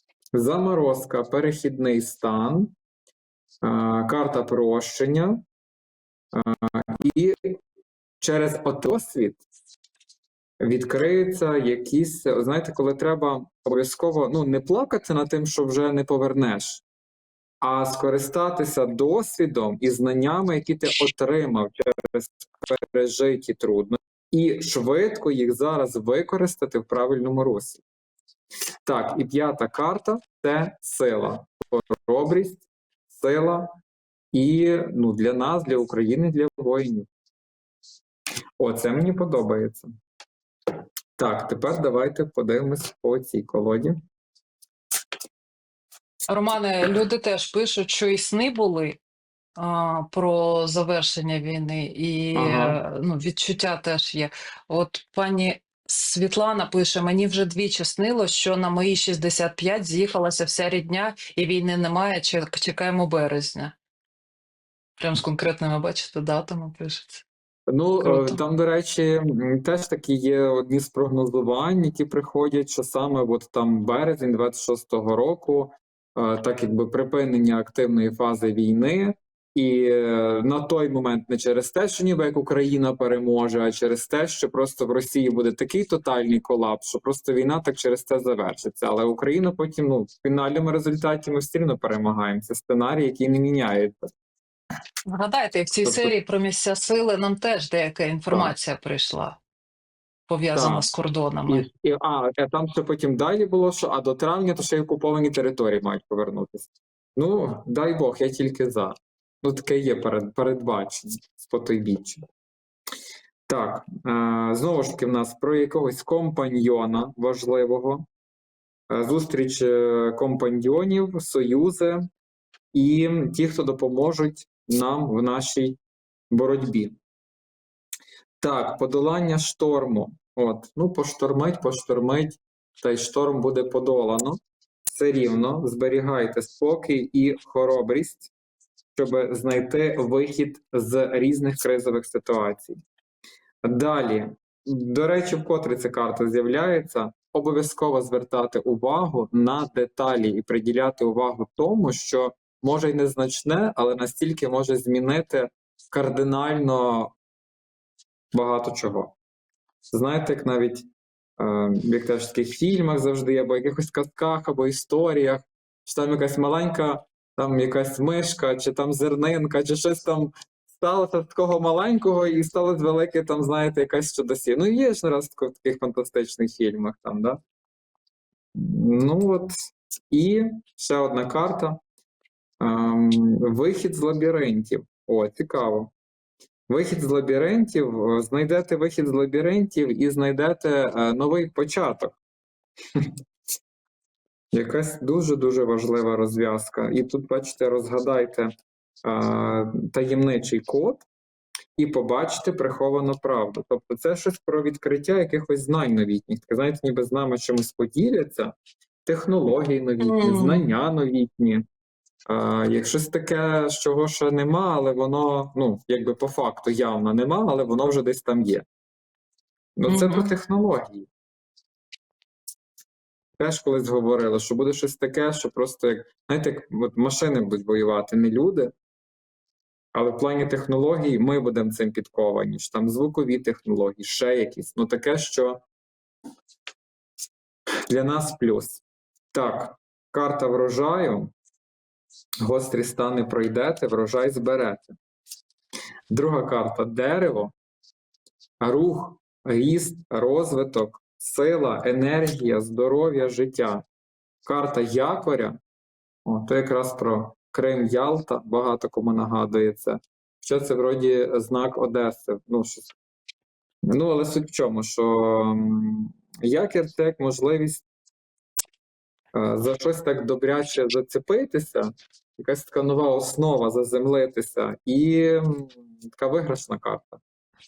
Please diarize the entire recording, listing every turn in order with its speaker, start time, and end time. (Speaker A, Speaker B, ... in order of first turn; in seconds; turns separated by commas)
Speaker A: 0.3-2.7, Speaker A: 3.6-5.4, Speaker A: 6.3-7.6, Speaker A: 8.2-9.4, Speaker A: 10.6-16.8, Speaker A: 17.6-27.8, Speaker A: 28.9-33.7, Speaker A: 34.3-37.1, Speaker A: 38.6-39.9, Speaker A: 41.2-44.0, Speaker B: 46.3-49.0, Speaker B: 49.6-63.8, Speaker A: 52.4-52.8, Speaker B: 65.0-67.2, Speaker A: 67.7-94.1, Speaker B: 68.0-68.4, Speaker B: 95.1-99.4, Speaker A: 95.8-96.1, Speaker B: 100.3-101.7, Speaker A: 100.5-100.9, Speaker A: 101.5-112.2, Speaker A: 113.5-118.0, Speaker A: 118.9-122.0, Speaker A: 122.7-127.0, Speaker A: 128.4-138.3, Speaker A: 139.0-142.8, Speaker A: 143.6-157.1, Speaker A: 158.3-159.2, Speaker A: 159.9-177.4, Speaker A: 178.6-179.5, Speaker A: 180.1-181.8, Speaker A: 182.6-185.9, Speaker A: 186.7-192.2, Speaker A: 194.5-198.5, Speaker A: 199.0-201.1, Speaker A: 201.8-208.5, Speaker A: 209.1-211.6, Speaker B: 210.0-210.7, Speaker A: 212.3-218.7, Speaker A: 219.8-221.1, Speaker B: 219.9-220.3, Speaker A: 223.4-228.7, Speaker A: 229.9-235.6, Speaker A: 237.9-238.8, Speaker A: 239.3-241.3, Speaker A: 242.4-245.0, Speaker A: 246.1-247.5, Speaker A: 248.6-253.8, Speaker A: 254.4-255.6, Speaker A: 256.3-262.9, Speaker A: 263.9-267.9, Speaker A: 269.3-277.2